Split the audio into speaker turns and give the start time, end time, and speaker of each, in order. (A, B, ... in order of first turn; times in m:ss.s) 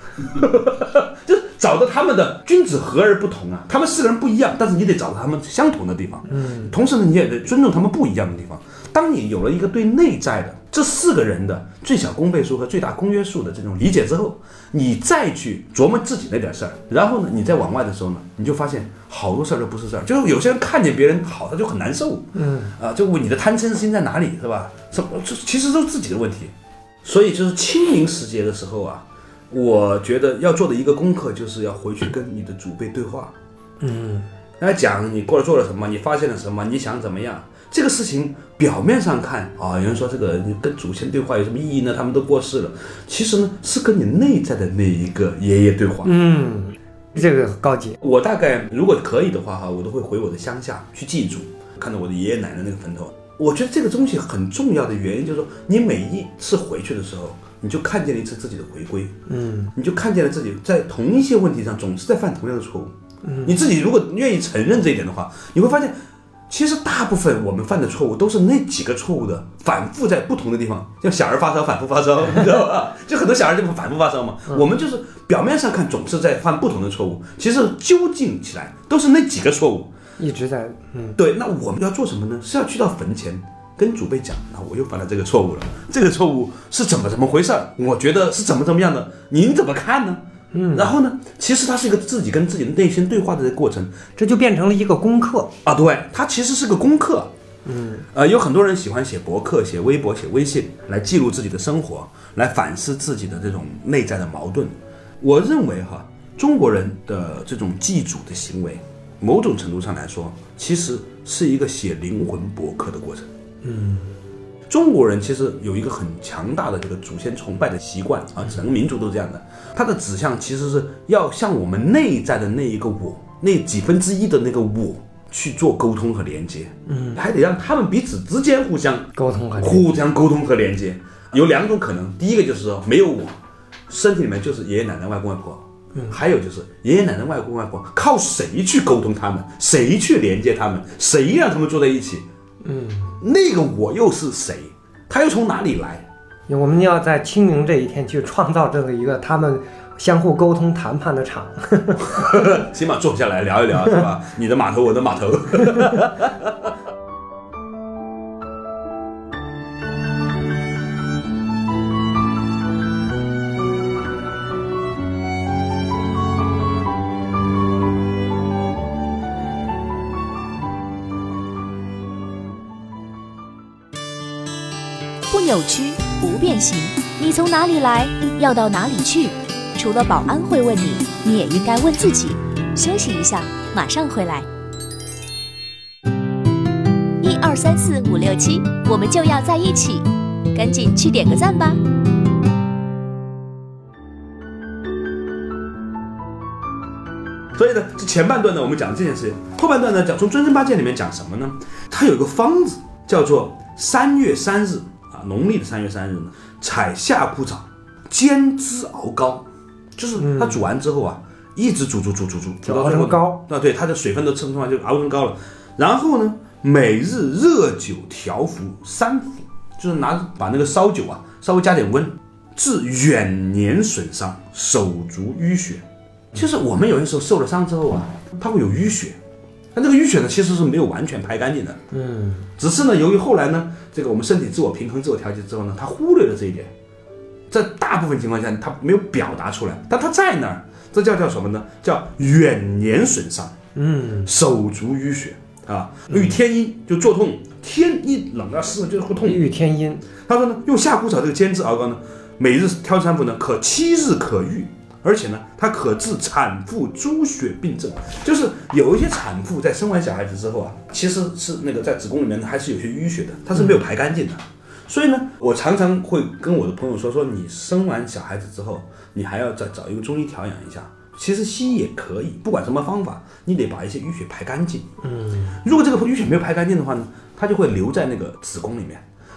0:00.2-0:26.5 A
0:06.3-0:06.8 B
0:22.4-0:22.7 B
0:27.0-0:33.3 A
0:33.8-0:34.3 B
0:34.6-0:46.2 A
0:46.0-0:48.0 B
0:48.0-0:59.2 A
0:59.3-0:59.7 B
0:59.7-1:06.0 A
1:03.2-1:03.6 B
1:06.5-1:19.9 A
1:20.2-1:21.2 B
1:21.2-1:34.0 A
1:30.5-1:31.0 B
1:34.2-1:35.5 B
1:35.6-1:37.3 A
1:37.7-1:38.0 B
1:38.1-1:53.3 A
1:53.6-1:54.2 B
1:54.7-2:13.4 A
2:06.9-2:07.2 B
2:09.1-2:09.9 B
2:13.9-2:22.3 A
2:16.0-2:16.2 B
2:22.6-2:23.2 B
2:23.2-2:26.1 A
2:26.5-2:32.4 B
2:32.0-2:36.5 A
2:55.3-3:04.5 C
3:07.2-3:11.8 C
3:17.6-3:49.2 A
3:30.2-3:30.6 B
3:32.6-3:33.4 B
3:49.7-3:51.8 A
3:51.9-3:52.5 B
3:52.6-3:56.7 A
3:57.5-4:03.6 A
4:03.8-4:04.3 B
4:04.2-4:09.5 A
4:09.2-4:10.0 B
4:10.2-4:34.9 A
4:35.0-4:35.6 B
4:35.6-4:39.0 A